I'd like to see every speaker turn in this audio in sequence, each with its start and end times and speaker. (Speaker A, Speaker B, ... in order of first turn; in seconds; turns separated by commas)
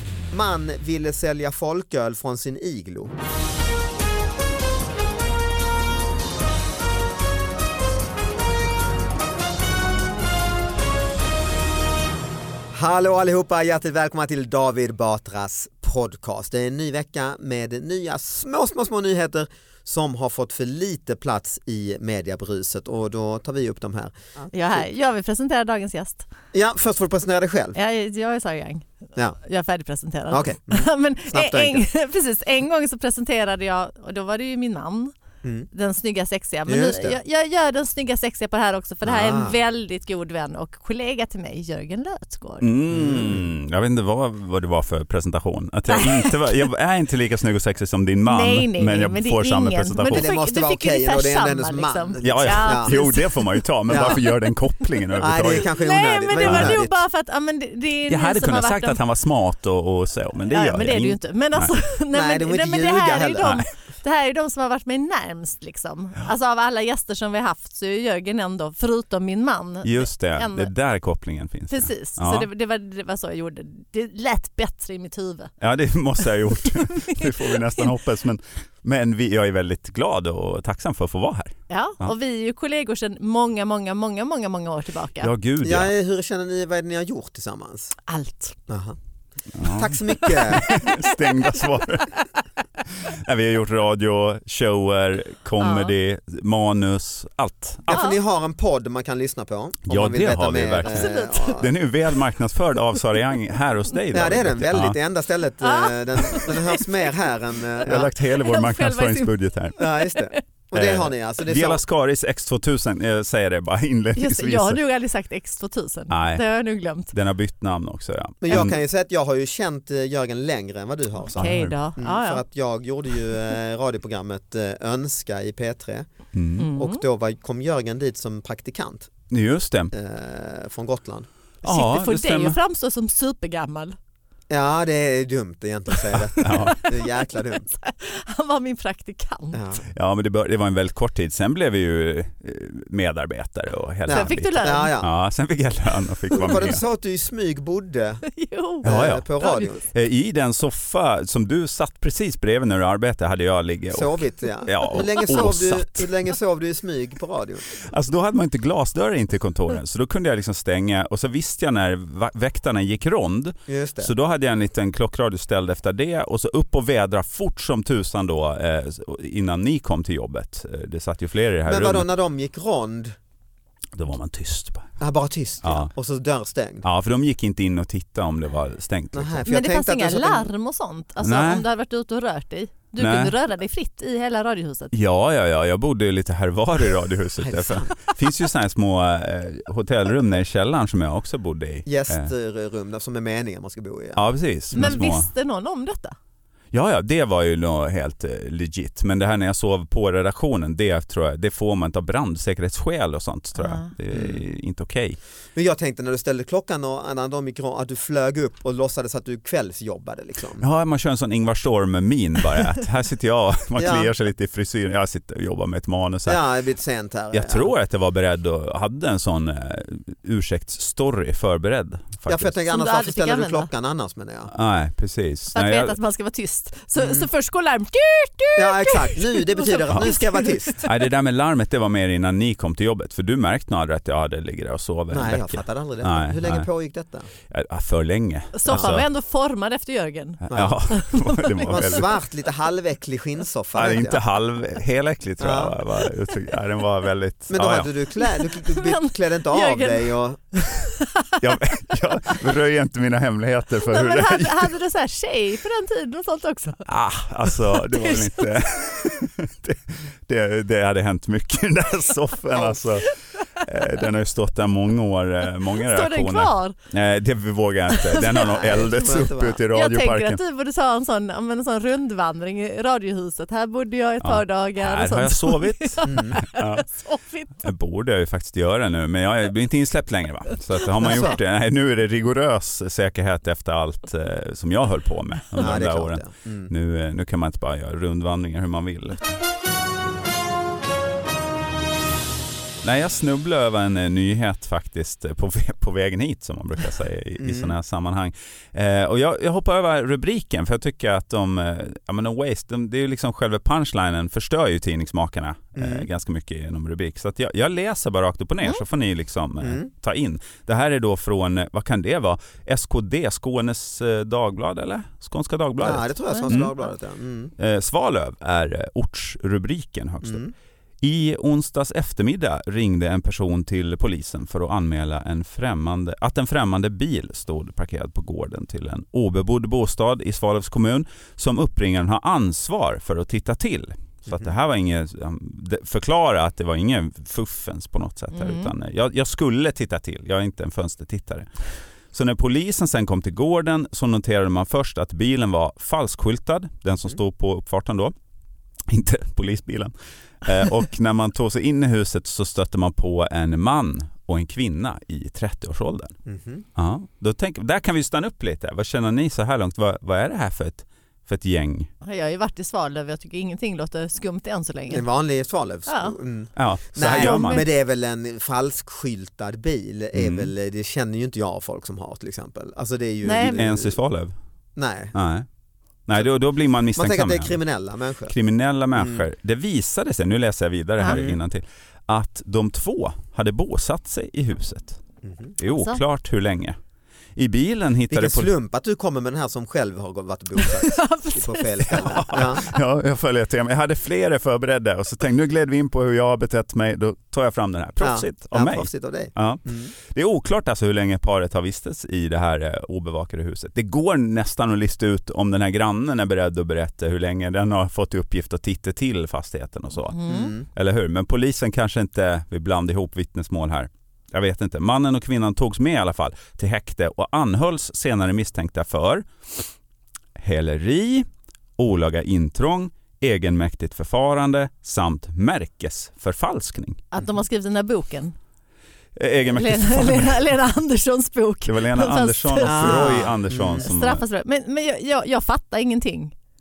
Speaker A: 0.3-3.1, Speaker A: 12.7-24.8, Speaker B: 24.5-26.3, Speaker A: 26.5-27.8, Speaker B: 27.7-35.1, Speaker A: 30.3-31.9, Speaker A: 35.4-35.7, Speaker B: 35.7-42.7, Speaker A: 36.7-37.2, Speaker A: 39.0-39.5, Speaker C: 42.6-50.2, Speaker A: 42.9-43.4, Speaker B: 45.9-46.4, Speaker B: 48.2-54.3, Speaker A: 50.1-53.0, Speaker C: 52.2-55.7, Speaker A: 53.9-54.2, Speaker A: 55.2-56.9, Speaker B: 55.6-59.0, Speaker C: 56.4-56.8, Speaker C: 58.1-61.7, Speaker B: 60.5-70.7, Speaker A: 62.1-63.6, Speaker C: 69.8-72.5, Speaker B: 71.7-75.5, Speaker C: 75.6-82.1, Speaker B: 76.9-77.9, Speaker B: 81.7-85.3, Speaker C: 85.2-85.9, Speaker A: 85.6-87.9, Speaker B: 88.1-88.5, Speaker A: 88.7-89.0, Speaker C: 89.5-92.2, Speaker A: 89.6-90.8, Speaker C: 92.8-98.0, Speaker B: 95.6-95.9, Speaker A: 97.9-101.7, Speaker B: 97.9-98.2, Speaker C: 99.9-105.0, Speaker B: 100.9-101.6, Speaker A: 104.1-108.1, Speaker B: 105.6-106.9, Speaker C: 107.8-109.8, Speaker B: 108.3-110.4, Speaker A: 109.8-111.8, Speaker C: 110.7-114.8, Speaker B: 114.2-117.1, Speaker C: 116.1-116.4, Speaker C: 117.1-118.8, Speaker A: 118.4-126.1, Speaker C: 121.3-121.7, Speaker B: 121.3-122.4, Speaker C: 126.3-126.7, Speaker B: 126.6-127.0, Speaker A: 126.8-129.1, Speaker C: 129.3-129.9, Speaker A: 129.9-131.3, Speaker C: 131.6-132.6, Speaker B: 131.6-134.0, Speaker A: 134.5-137.7, Speaker C: 136.4-136.8, Speaker B: 136.4-139.6, Speaker A: 139.5-139.8, Speaker C: 139.9-146.8, Speaker A: 144.1-145.1, Speaker B: 144.1-144.9, Speaker A: 146.3-148.2, Speaker B: 148.2-149.7, Speaker A: 148.8-149.8, Speaker C: 148.8-149.3, Speaker C: 149.8-156.1, Speaker A: 153.9-157.7, Speaker C: 157.7-172.1, Speaker A: 163.7-164.1, Speaker A: 171.7-173.2, Speaker C: 173.9-174.9, Speaker A: 175.0-176.9, Speaker C: 175.6-175.9, Speaker C: 176.8-179.4, Speaker A: 179.1-180.5, Speaker B: 179.4-184.9, Speaker C: 181.2-181.7, Speaker C: 183.0-183.3, Speaker C: 184.9-192.3, Speaker A: 187.4-188.1, Speaker A: 191.8-195.0, Speaker C: 194.2-195.3, Speaker B: 194.8-196.2, Speaker C: 196.7-205.2, Speaker B: 203.6-203.9, Speaker A: 204.1-204.4, Speaker A: 205.5-210.6, Speaker C: 210.6-216.4, Speaker A: 213.8-214.1, Speaker A: 216.2-217.7, Speaker C: 217.3-222.5, Speaker A: 222.2-224.5, Speaker B: 222.7-223.7, Speaker C: 224.5-225.9, Speaker B: 225.5-230.9, Speaker A: 226.9-227.3, Speaker A: 228.6-230.8, Speaker C: 230.8-236.7, Speaker A: 235.1-237.3, Speaker C: 237.5-239.0, Speaker B: 238.5-241.8, Speaker A: 238.7-238.9, Speaker C: 240.4-242.1, Speaker A: 240.5-240.8, Speaker A: 241.7-244.2, Speaker C: 243.7-247.9, Speaker A: 245.4-245.8, Speaker A: 247.5-250.6, Speaker B: 248.2-251.4, Speaker C: 251.4-254.7, Speaker B: 253.8-256.9, Speaker C: 256.9-270.4, Speaker B: 257.5-258.4, Speaker B: 265.8-266.8, Speaker B: 267.9-268.8, Speaker A: 268.4-269.6, Speaker B: 269.7-277.7, Speaker C: 274.2-276.9, Speaker A: 276.0-276.4, Speaker C: 277.6-289.4, Speaker A: 281.0-281.4, Speaker A: 285.6-286.7, Speaker C: 292.8-316.7, Speaker A: 297.4-297.7, Speaker A: 305.8-306.1, Speaker A: 309.6-309.9, Speaker A: 315.8-317.5, Speaker B: 316.3-316.8, Speaker C: 317.6-320.4, Speaker A: 320.2-320.5, Speaker C: 321.0-341.5, Speaker A: 334.3-334.5, Speaker B: 338.3-338.7, Speaker C: 342.1-348.1, Speaker C: 348.9-356.1, Speaker A: 356.2-356.6, Speaker C: 356.8-361.9, Speaker B: 362.0-365.1, Speaker A: 364.9-374.0, Speaker B: 365.9-366.1, Speaker C: 366.6-367.6, Speaker B: 367.1-367.6, Speaker C: 370.1-370.5, Speaker B: 373.2-373.6, Speaker C: 373.4-374.3, Speaker A: 374.8-375.1, Speaker C: 375.1-375.4, Speaker C: 376.1-377.6, Speaker A: 376.9-378.3, Speaker C: 378.3-385.0, Speaker A: 378.9-379.2, Speaker A: 381.0-381.4, Speaker A: 385.2-385.6, Speaker C: 385.6-386.8, Speaker B: 385.6-386.0, Speaker C: 387.4-388.5, Speaker A: 388.1-392.7, Speaker B: 390.6-392.7, Speaker C: 391.9-419.6, Speaker A: 398.0-399.9, Speaker B: 410.1-410.5, Speaker A: 410.3-410.6, Speaker C: 420.4-421.2, Speaker C: 421.8-427.0, Speaker B: 427.1-428.4, Speaker C: 429.1-430.4, Speaker B: 429.5-433.2, Speaker C: 431.6-434.2, Speaker A: 432.6-433.9, Speaker B: 433.8-436.3